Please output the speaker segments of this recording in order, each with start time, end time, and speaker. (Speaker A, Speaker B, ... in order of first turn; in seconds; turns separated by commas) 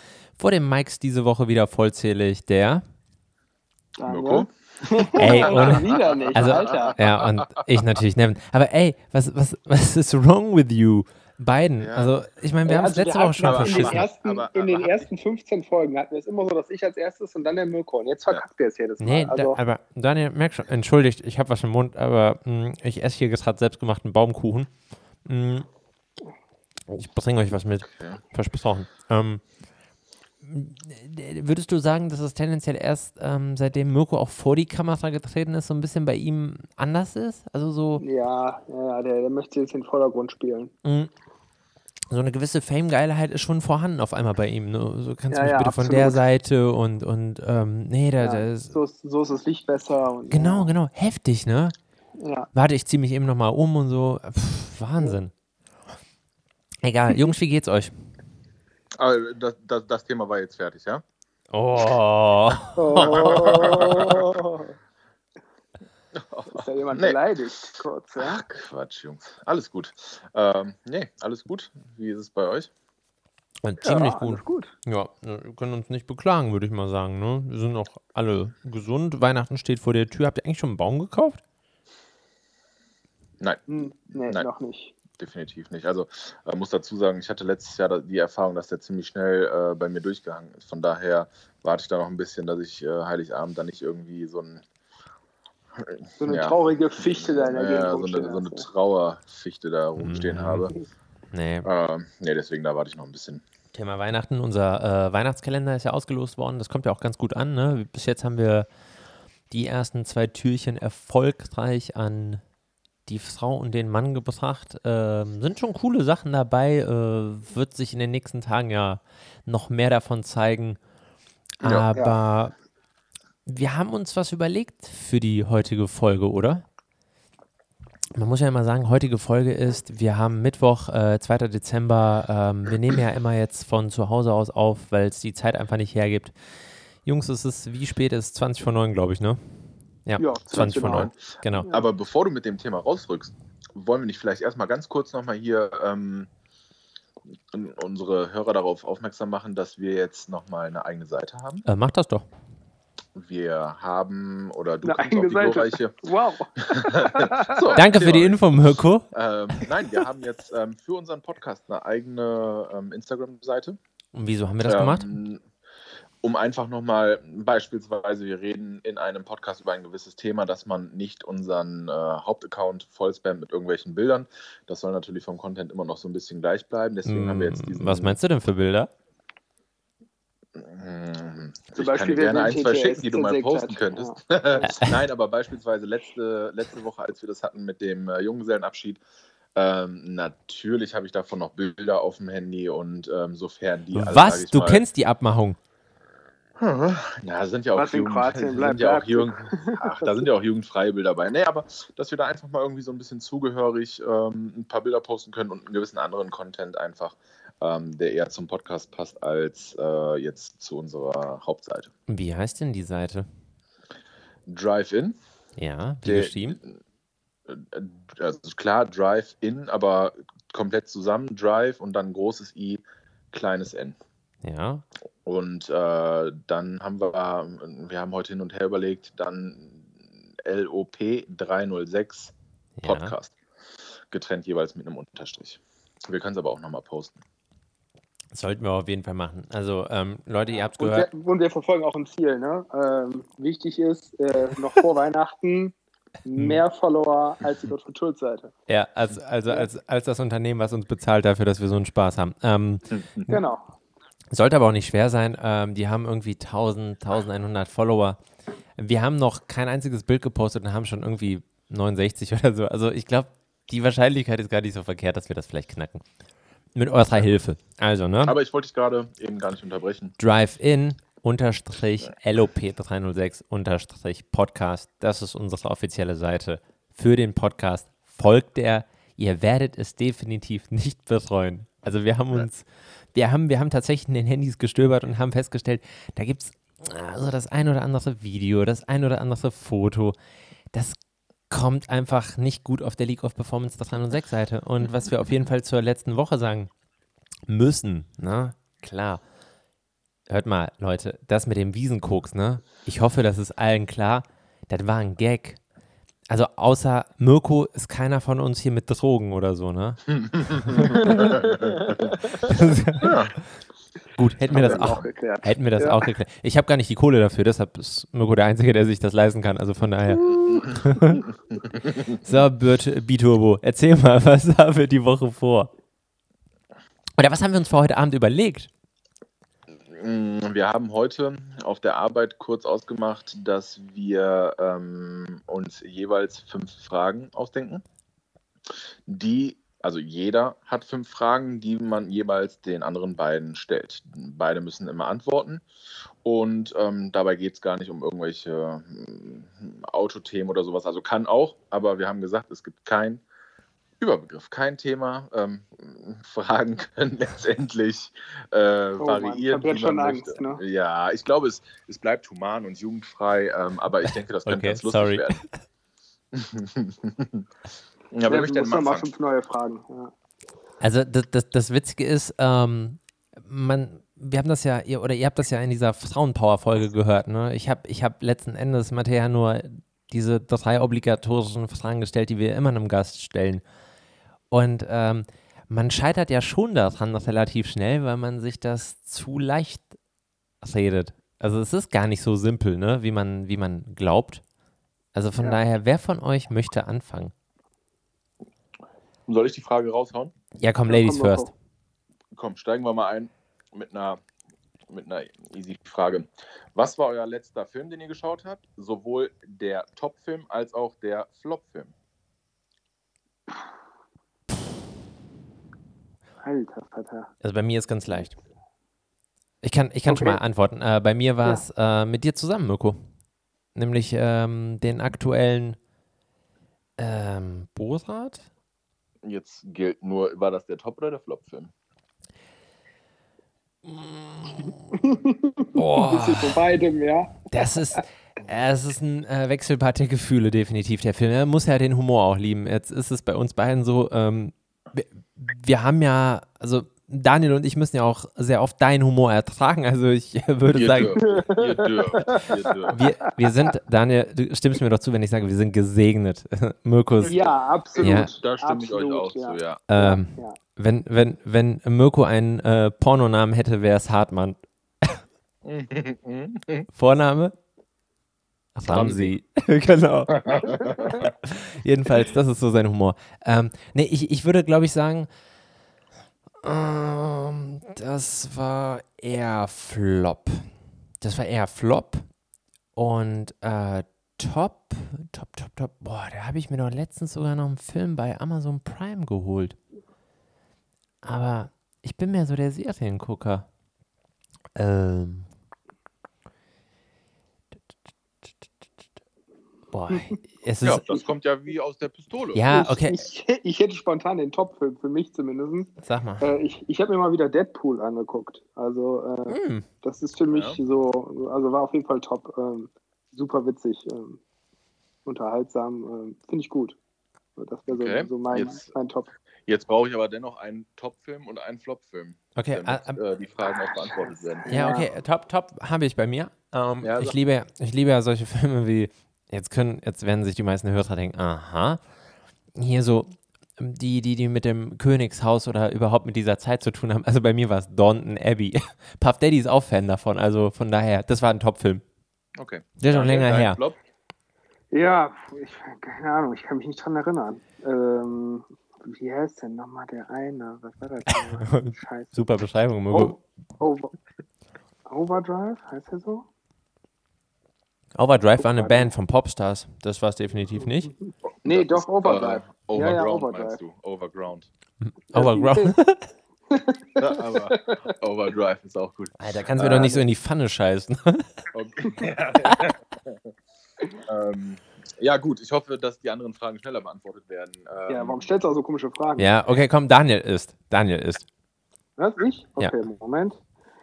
Speaker A: 0.4-2.8, Speaker B: 4.0-7.0, Speaker C: 4.0-7.8, Speaker A: 5.2-14.1, Speaker C: 11.8-12.2, Speaker B: 12.7-19.6, Speaker C: 13.4-15.1, Speaker A: 19.0-24.7, Speaker A: 25.2-25.7, Speaker A: 26.9-29.4, Speaker C: 27.9-28.2, Speaker A: 30.4-38.0, Speaker B: 38.0-40.7, Speaker A: 40.8-41.1, Speaker A: 42.1-48.7, Speaker B: 45.3-46.2, Speaker B: 48.2-50.7, Speaker A: 50.3-51.7, Speaker B: 52.2-52.5, Speaker A: 52.5-55.3, Speaker A: 56.8-57.9, Speaker C: 58.9-61.0, Speaker A: 61.5-64.2, Speaker B: 62.8-64.7, Speaker C: 62.9-64.2, Speaker C: 66.1-67.2, Speaker B: 66.5-68.4, Speaker C: 68.2-72.7, Speaker A: 73.6-81.4, Speaker B: 73.8-74.7, Speaker B: 83.7-85.0, Speaker C: 85.2-94.6, Speaker C: 95.8-100.7, Speaker B: 96.2-98.7, Speaker A: 100.0-100.7, Speaker A: 101.3-101.7, Speaker C: 101.6-103.4, Speaker A: 103.7-108.7, Speaker A: 109.5-112.4, Speaker A: 113.1-120.8, Speaker A: 121.6-122.5, Speaker C: 121.6-121.9, Speaker B: 121.9-122.2, Speaker A: 123.5-126.6, Speaker A: 128.1-136.3, Speaker A: 137.0-139.4, Speaker A: 140.1-141.7, Speaker B: 140.2-141.1, Speaker C: 140.6-146.3, Speaker C: 147.5-151.7, Speaker A: 151.7-152.2, Speaker C: 153.2-156.0, Speaker B: 154.8-157.7, Speaker C: 156.6-158.6, Speaker A: 157.7-159.1, Speaker C: 159.1-163.8, Speaker A: 164.1-165.1, Speaker C: 164.6-165.4, Speaker C: 166.2-178.2, Speaker A: 177.1-178.9, Speaker C: 180.6-189.0, Speaker B: 181.7-184.8, Speaker A: 184.6-184.9, Speaker C: 189.6-194.8, Speaker A: 193.9-195.6, Speaker C: 196.6-211.9, Speaker B: 197.7-200.3, Speaker A: 212.1-213.3, Speaker C: 214.5-215.2, Speaker A: 215.6-216.6, Speaker C: 216.0-216.8, Speaker C: 217.5-224.0, Speaker A: 224.4-224.8, Speaker C: 225.2-232.3, Speaker A: 232.8-233.1, Speaker C: 232.8-233.3, Speaker C: 234.1-237.2, Speaker A: 238.3-241.1, Speaker B: 240.8-245.7, Speaker B: 246.2-248.5, Speaker A: 246.3-246.6, Speaker A: 248.7-253.4, Speaker C: 252.9-253.3, Speaker B: 253.3-253.7, Speaker A: 254.3-258.2, Speaker A: 258.8-266.0, Speaker A: 266.7-268.4, Speaker C: 268.2-270.1, Speaker A: 270.2-290.1, Speaker A: 291.5-296.7, Speaker A: 297.5-299.2, Speaker A: 300.3-305.6, Speaker A: 306.3-311.3, Speaker C: 310.2-312.1, Speaker B: 310.8-312.7, Speaker A: 312.4-313.4, Speaker C: 313.0-313.3, Speaker A: 314.1-321.3, Speaker C: 314.5-315.0, Speaker B: 314.5-316.0, Speaker B: 320.2-320.6, Speaker C: 321.7-322.4, Speaker A: 322.2-325.7, Speaker A: 327.2-328.7, Speaker C: 329.7-337.8, Speaker C: 338.7-345.6, Speaker C: 346.2-353.2, Speaker C: 354.0-365.4, Speaker B: 359.0-360.6, Speaker A: 364.5-365.5, Speaker C: 366.3-367.5, Speaker C: 368.1-369.1, Speaker B: 368.3-370.1, Speaker A: 370.8-383.6, Speaker A: 384.5-389.9, Speaker A: 390.6-394.4, Speaker A: 395.1-397.3, Speaker C: 399.3-400.3, Speaker A: 400.6-401.5, Speaker B: 400.9-401.5, Speaker C: 402.3-404.2, Speaker C: 404.9-411.9, Speaker B: 416.4-417.3, Speaker A: 417.4-418.3, Speaker A: 419.6-423.0, Speaker B: 420.1-420.4, Speaker A: 423.7-425.8, Speaker A: 427.0-428.5, Speaker C: 429.2-431.7, Speaker A: 433.9-434.8, Speaker B: 434.6-438.0, Speaker A: 435.7-436.6, Speaker A: 437.5-451.2, Speaker C: 450.7-453.0, Speaker B: 451.2-453.3, Speaker A: 452.9-457.4, Speaker C: 457.2-459.8, Speaker B: 457.2-460.6, Speaker A: 458.0-458.3, Speaker A: 459.9-465.2, Speaker C: 465.6-466.9, Speaker A: 466.9-467.5, Speaker A: 468.8-475.3, Speaker C: 468.9-469.3, Speaker C: 470.3-471.3, Speaker A: 476.6-480.7, Speaker A: 481.2-482.2, Speaker A: 482.9-489.8, Speaker A: 491.2-493.6, Speaker A: 494.7-495.5, Speaker A: 499.9-501.0, Speaker B: 500.1-500.4, Speaker C: 500.8-502.7, Speaker A: 502.5-503.2, Speaker B: 502.7-514.4, Speaker A: 506.0-506.5, Speaker A: 509.5-509.9, Speaker C: 510.5-510.8, Speaker B: 515.2-517.0, Speaker B: 517.5-519.3, Speaker C: 517.9-518.9, Speaker C: 519.6-524.7, Speaker A: 522.5-523.2, Speaker B: 523.8-525.1, Speaker A: 524.7-532.0, Speaker C: 527.0-527.4, Speaker A: 532.7-542.0, Speaker C: 542.6-544.0, Speaker A: 543.0-543.8, Speaker B: 544.9-552.5, Speaker A: 551.3-553.4, Speaker B: 553.1-554.1, Speaker B: 555.1-556.5, Speaker A: 558.1-561.1, Speaker B: 558.6-559.1, Speaker B: 561.0-563.8, Speaker C: 561.6-564.7, Speaker A: 565.0-566.3, Speaker B: 565.3-566.0, Speaker B: 566.7-568.1, Speaker C: 567.2-570.2, Speaker A: 569.4-571.6, Speaker B: 569.9-570.2, Speaker C: 571.7-573.5, Speaker C: 574.2-578.5, Speaker B: 578.1-579.5, Speaker A: 579.4-581.5, Speaker B: 582.2-583.6